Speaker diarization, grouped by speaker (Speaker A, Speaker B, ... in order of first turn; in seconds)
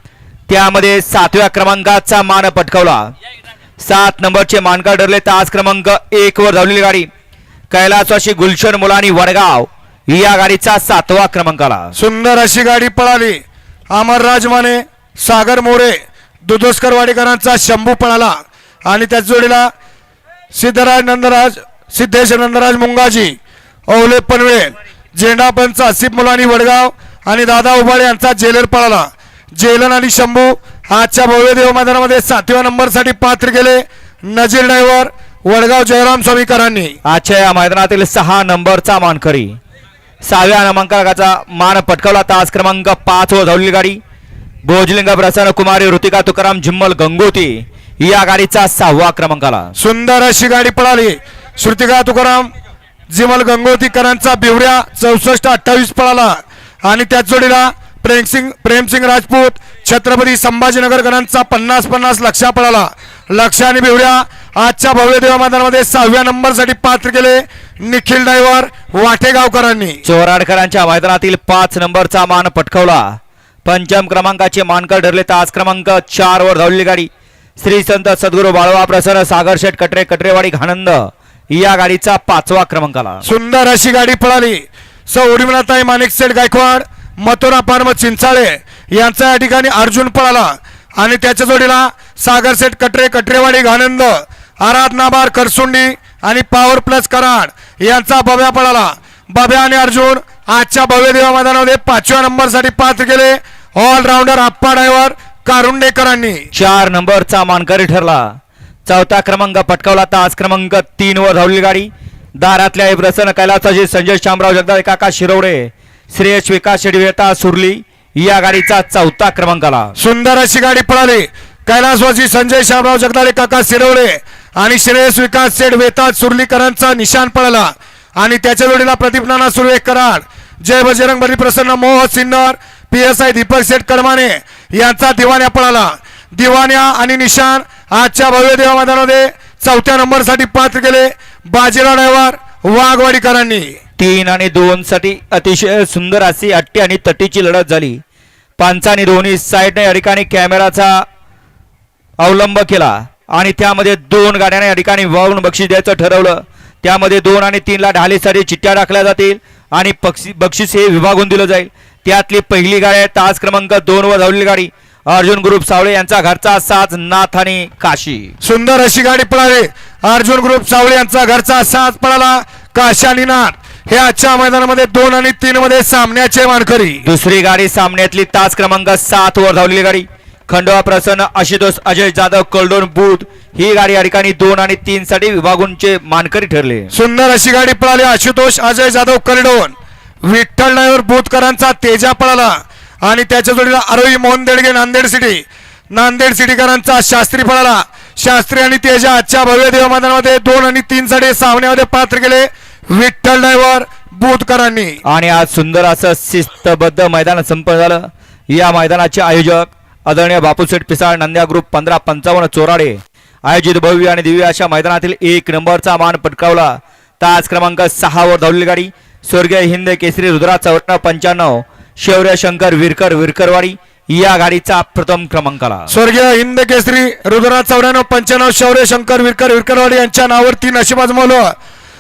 Speaker A: 0.5-3.1, 3.8-7.1, 7.7-11.9, 37.0-39.5, 40.2-44.0, 44.6-49.7, 70.0-73.0, 73.6-77.1, 77.6-83.2, 106.5-108.2, 108.8-119.9, 144.0-148.0, 148.6-151.0, 152.2-168.3, 177.0-186.9, 205.0-225.9
Speaker B: 11.9-13.4, 13.9-19.7, 20.5-23.4, 23.9-37.0, 49.8-52.5, 53.1-70.0, 83.2-106.5, 120.0-143.7, 168.4-177.0, 186.9-205.0, 225.9-231.5